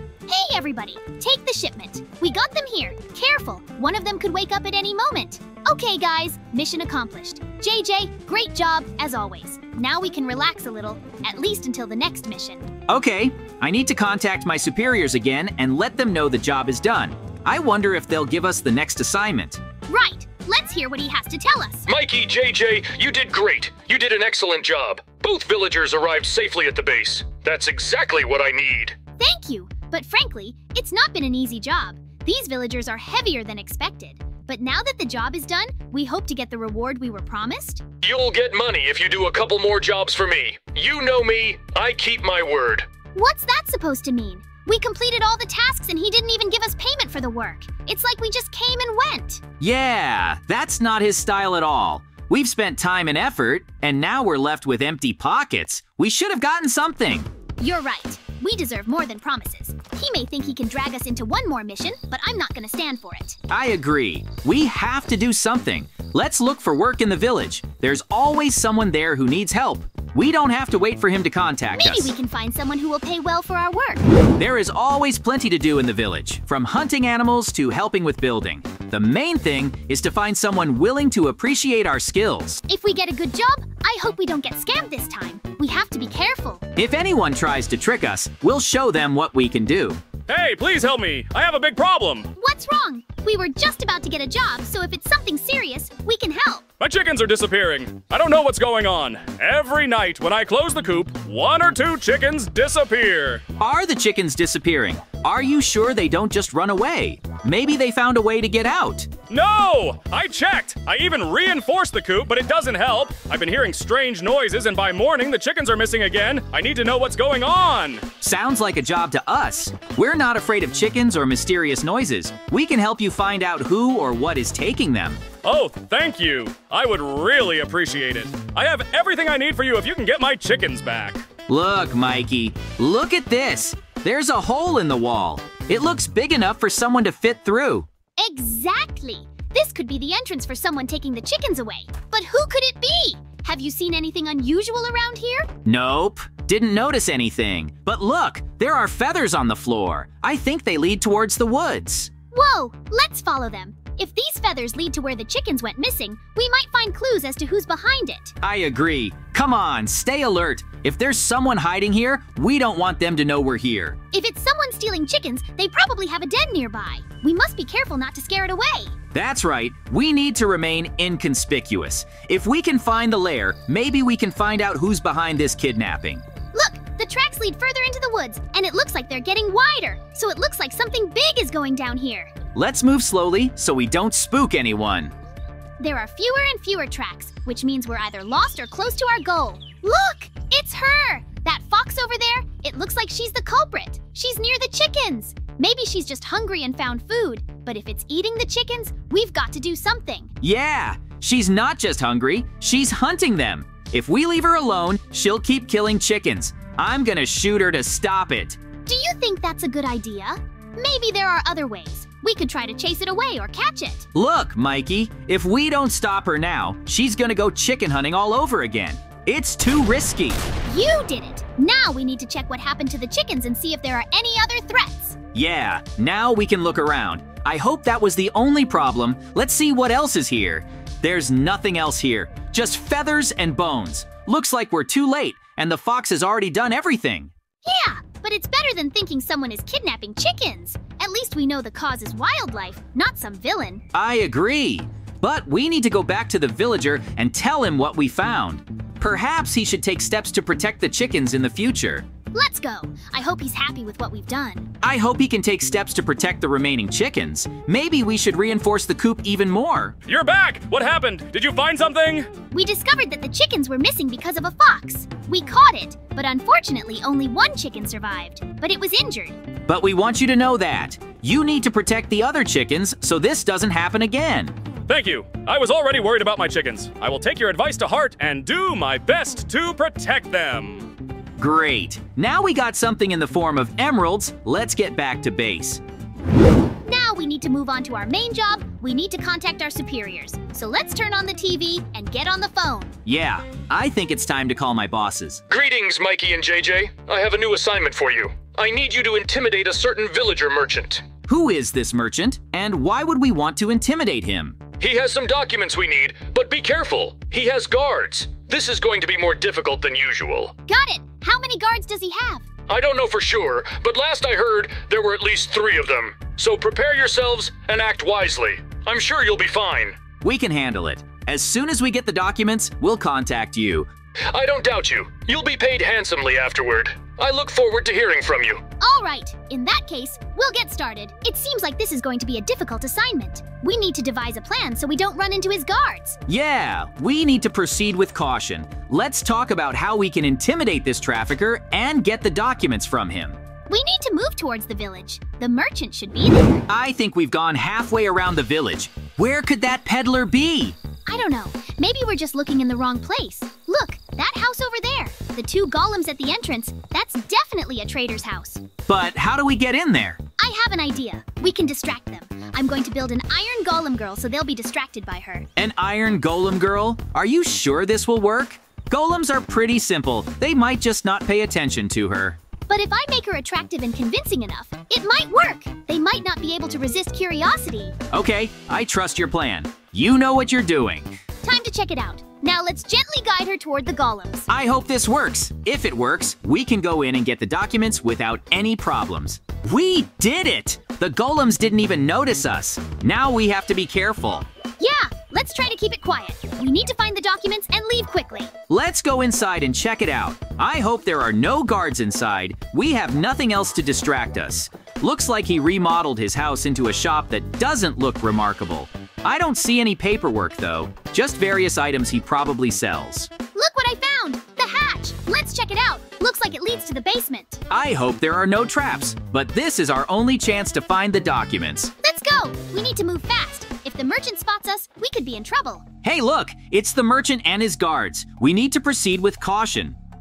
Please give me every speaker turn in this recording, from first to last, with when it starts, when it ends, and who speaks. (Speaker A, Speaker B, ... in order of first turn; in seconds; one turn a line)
Speaker A: 0.3-12.7
Speaker B: 12.9-19.6
Speaker A: 19.9-21.9
Speaker C: 21.9-29.0
Speaker A: 29.2-37.8
Speaker C: 38.0-42.9
Speaker A: 43.1-49.4
Speaker B: 49.6-57.3
Speaker A: 57.6-63.4
Speaker B: 63.5-72.1
Speaker A: 71.8-74.1
Speaker B: 74.4-82.6
Speaker A: 82.7-86.6
Speaker B: 86.8-90.0
Speaker D: 90.3-92.3
Speaker A: 92.4-96.6
Speaker D: 96.8-103.4
Speaker B: 103.6-109.1
Speaker D: 109.3-118.0
Speaker B: 118.2-125.2
Speaker D: 125.4-131.2
Speaker B: 131.5-137.9
Speaker A: 138.2-145.5
Speaker B: 145.6-152.1
Speaker A: 152.3-158.3
Speaker B: 158.4-163.9
Speaker A: 164.1-168.9
Speaker B: 169.1-176.2
Speaker A: 176.5-182.3
Speaker B: 182.6-185.1
Speaker A: 185.8-200.3
Speaker B: 200.4-208.6
Speaker A: 208.8-214.1
Speaker B: 214.1-220.4
Speaker A: 220.7-225.2
Speaker B: 225.3-237.3
Speaker A: 237.6-243.8
Speaker B: 243.9-252.1
Speaker A: 252.3-254.7
Speaker B: 254.8-259.9
Speaker D: 260.1-262.3
Speaker A: 262.5-269.4
Speaker B: 269.7-274.5
Speaker D: 274.9-280.9
Speaker B: 281.4-285.8
Speaker A: 286.8-292.9
Speaker B: 293.1-295.4
Speaker C: 295.5-301.1
Speaker B: 301.3-304.6
Speaker C: 304.8-310.6
Speaker A: 310.7-312.4
Speaker C: 312.7-320.0
Speaker B: 320.2-323.9
Speaker C: 324.3-328.6
Speaker A: 328.8-336.2
Speaker B: 336.3-343.4
Speaker A: 343.7-346.7
Speaker B: 346.7-350.8
Speaker A: 351.1-358.6
Speaker B: 358.9-360.2
Speaker A: 360.4-365.5
Speaker B: 365.6-372.4
Speaker A: 372.7-377.9
Speaker B: 378.1-381.2
Speaker A: 381.4-384.5
Speaker B: 384.5-394.5
Speaker A: 394.8-398.5
Speaker B: 398.7-413.3
Speaker A: 413.5-417.6
Speaker B: 417.7-421.9
Speaker A: 422.0-425.8
Speaker B: 426.0-430.0